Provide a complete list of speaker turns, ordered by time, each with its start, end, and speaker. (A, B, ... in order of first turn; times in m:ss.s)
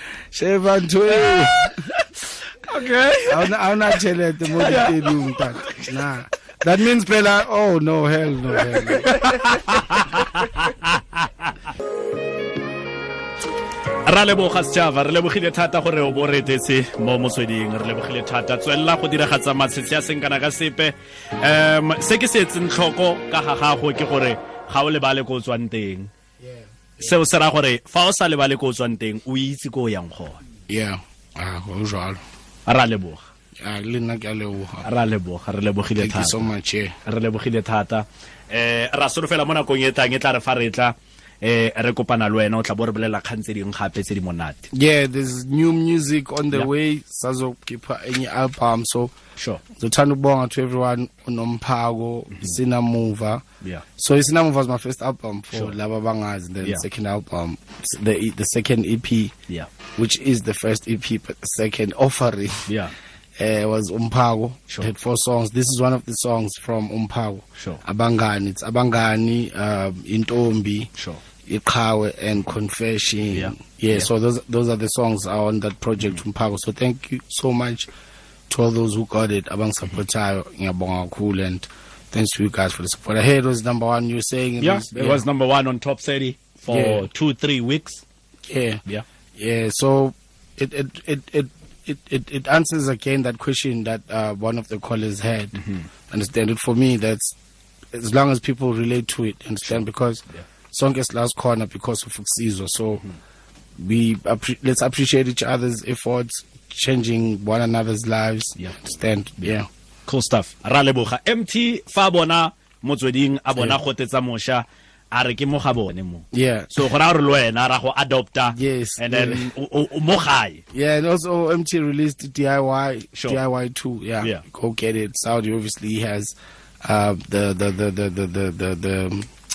0:00.3-0:01.9 A
0:02.7-0:03.5 B
0:03.3-0:09.1 A
0:04.6-0:05.9 B
0:09.0-0:11.3 B
0:14.0-0:26.1 B
0:26.4-0:27.1 A
0:27.0-0:30.4 B
0:30.7-0:32.2 A
0:32.7-0:33.2 B
0:33.6-0:34.9 A
0:34.8-0:36.5 B
0:36.0-0:36.9 A
0:37.0-0:44.7 B
0:44.7-0:49.1 A
0:49.4-0:49.6 B
0:49.7-0:53.4 A
0:54.0-0:59.3 A
1:00.0-1:02.7 A
1:02.7-1:02.9 B
1:03.4-1:10.9 A
1:11.4-1:17.9 A
1:13.3-1:14.1 B
1:18.5-1:25.2 A
1:24.6-1:28.0 B
1:26.7-1:27.1 A
1:28.4-1:28.8 A
1:29.4-1:35.6 A
1:35.6-1:35.9 B
1:36.1-1:37.3 A
1:37.9-1:43.0 A
1:43.8-1:49.7 A
1:50.1-2:00.6 B
1:56.3-1:56.9 A
1:58.5-1:59.5 A
2:00.7-2:09.3 A